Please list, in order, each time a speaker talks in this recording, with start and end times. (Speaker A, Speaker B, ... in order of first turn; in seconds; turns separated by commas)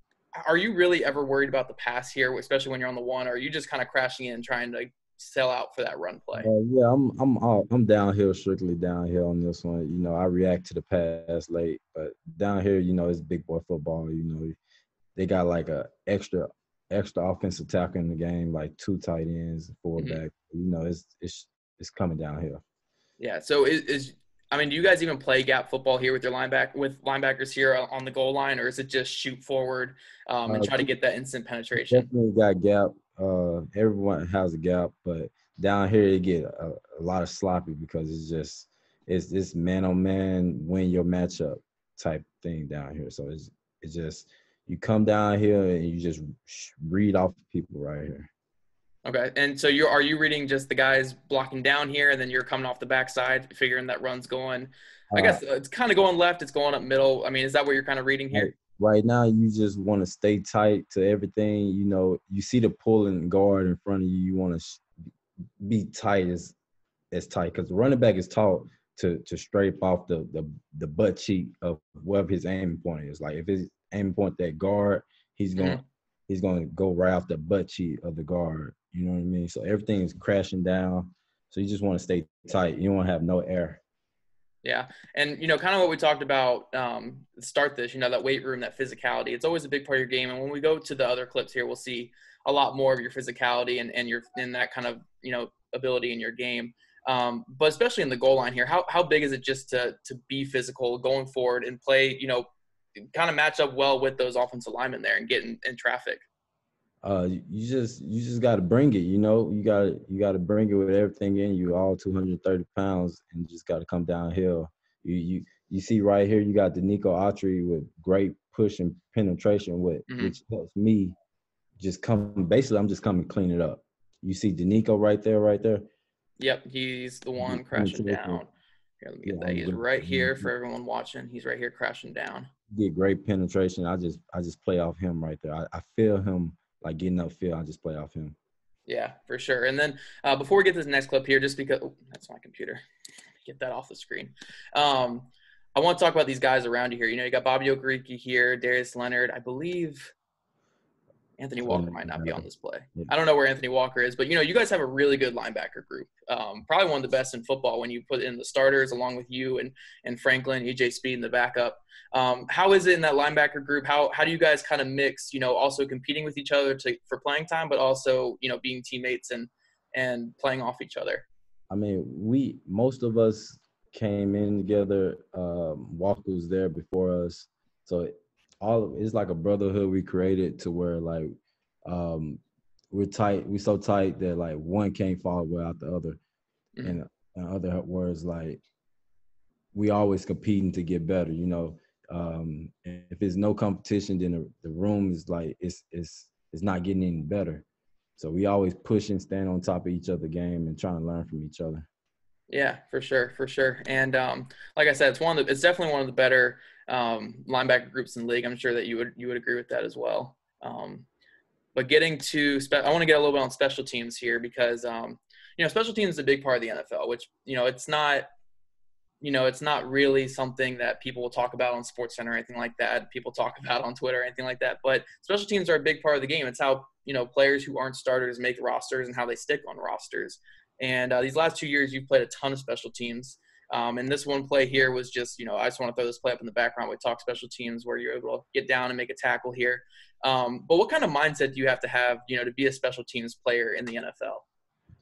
Speaker A: 0.4-6.5, Speaker B: 6.3-14.6, Speaker B: 15.2-22.6, Speaker A: 23.2-32.1, Speaker B: 30.5-30.9, Speaker B: 31.8-48.3, Speaker A: 49.1-58.5, Speaker B: 55.1-55.4, Speaker B: 58.3-64.9, Speaker B: 65.6-66.6, Speaker B: 67.1-83.8, Speaker A: 75.6-75.8, Speaker A: 84.6-102.5, Speaker A: 103.1-106.2, Speaker B: 107.0-121.2, Speaker A: 120.1-120.3, Speaker B: 121.8-125.8, Speaker A: 126.4-128.5, Speaker B: 127.4-128.4, Speaker A: 129.0-132.5, Speaker B: 129.2-130.5, Speaker B: 132.7-138.3, Speaker A: 138.9-142.8, Speaker A: 143.4-150.1, Speaker A: 151.4-171.3, Speaker B: 151.6-153.1, Speaker B: 171.7-181.3, Speaker B: 181.9-186.2, Speaker B: 186.8-188.6, Speaker B: 189.7-197.7, Speaker B: 198.2-201.9, Speaker A: 202.5-211.1, Speaker A: 211.8-218.3, Speaker A: 219.2-244.4